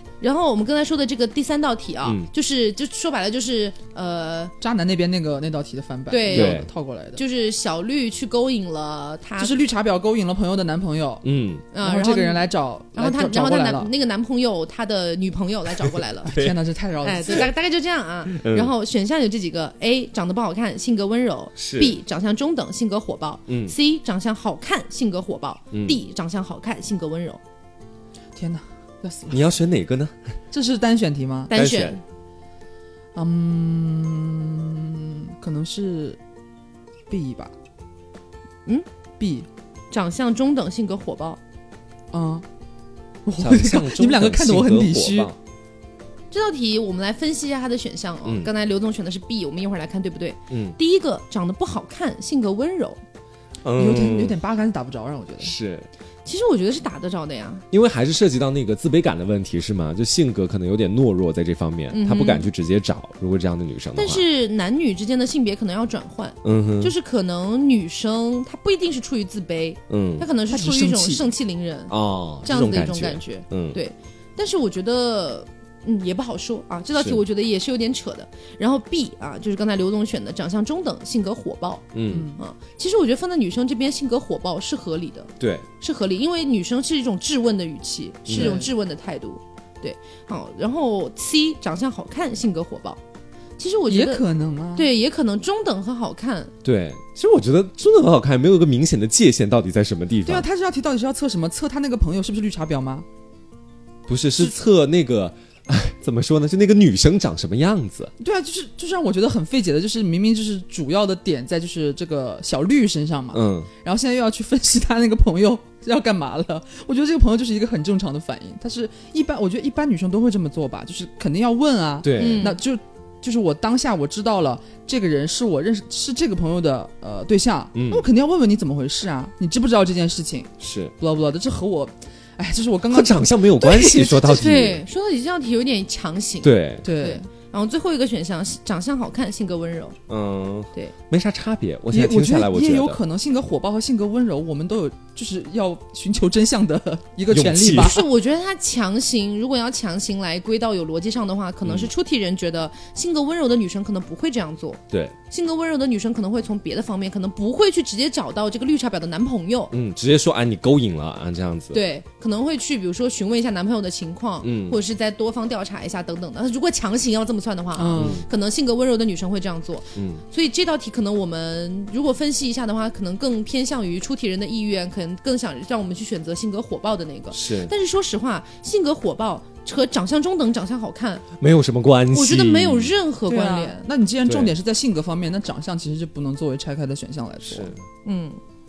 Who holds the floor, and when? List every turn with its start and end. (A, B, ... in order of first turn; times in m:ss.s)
0:00.2-0:04.5 A
0:04.6-0:07.2 B
0:06.1-0:06.6 A
0:06.3-0:06.7 C
0:07.2-0:09.6 A
0:09.4-0:11.2 B
0:11.2-0:11.6 C
0:11.7-0:16.4 A
0:11.8-0:13.9 B
0:16.3-0:16.6 C
0:16.3-0:17.5 B
0:17.0-0:27.4 A
0:18.3-0:18.7 C
0:21.6-0:22.0 C
0:23.5-0:23.7 C
0:25.7-0:26.0 C
0:28.4-0:29.5 B
0:29.3-0:30.2 C
0:30.5-0:31.5 B
0:31.5-0:32.0 A
0:31.5-0:32.0 C
0:33.2-0:36.2 B
0:37.1-0:37.5 B
0:39.2-0:39.5 B
0:39.9-0:41.4 A
0:42.1-0:42.4 B
0:43.3-0:45.3 B
0:43.4-0:45.4 C
0:46.3-0:53.0 A
0:48.2-0:48.5 C
0:50.5-0:50.8 C
0:53.6-0:54.4 C
0:53.8-0:55.6 B
0:55.4-0:55.9 C
0:56.2-0:57.6 A
0:57.7-1:04.2 C
1:01.9-1:02.5 A
1:04.0-1:21.9 A
1:06.4-1:06.9 C
1:09.9-1:10.3 C
1:10.5-1:11.3 B
1:11.9-1:13.8 C
1:21.9-1:22.3 C
1:22.1-1:22.4 B
1:22.4-1:33.0 A
1:25.4-1:25.7 C
1:28.3-1:28.6 C
1:28.3-1:28.7 B
1:33.6-1:34.2 A
1:33.9-1:34.9 B
1:34.8-1:36.5 A
1:36.6-1:40.5 C
1:40.2-1:43.1 B
1:44.1-1:48.1 C
1:48.2-2:14.4 B
1:53.3-1:53.7 C
2:02.0-2:02.6 C
2:02.2-2:02.6 A
2:07.7-2:08.0 C
2:10.6-2:10.9 C
2:12.9-2:14.8 C
2:14.3-2:20.0 A
2:16.4-2:16.9 C
2:16.8-2:17.3 B
2:20.1-2:23.0 C
2:21.9-2:28.1 B
2:27.3-2:28.0 C
2:27.8-2:39.7 A
2:31.6-2:31.9 C
2:34.9-2:35.2 C
2:39.7-2:41.8 C
2:41.7-3:01.3 A
2:44.4-2:44.8 C
2:47.8-2:48.2 B
2:48.0-2:48.3 C
2:50.0-2:50.2 C
2:57.3-2:57.7 C
3:01.4-3:02.9 C
3:02.1-3:03.9 A
3:03.3-3:07.7 B
3:04.2-3:04.5 C
3:07.4-3:07.8 C
3:08.0-3:08.4 A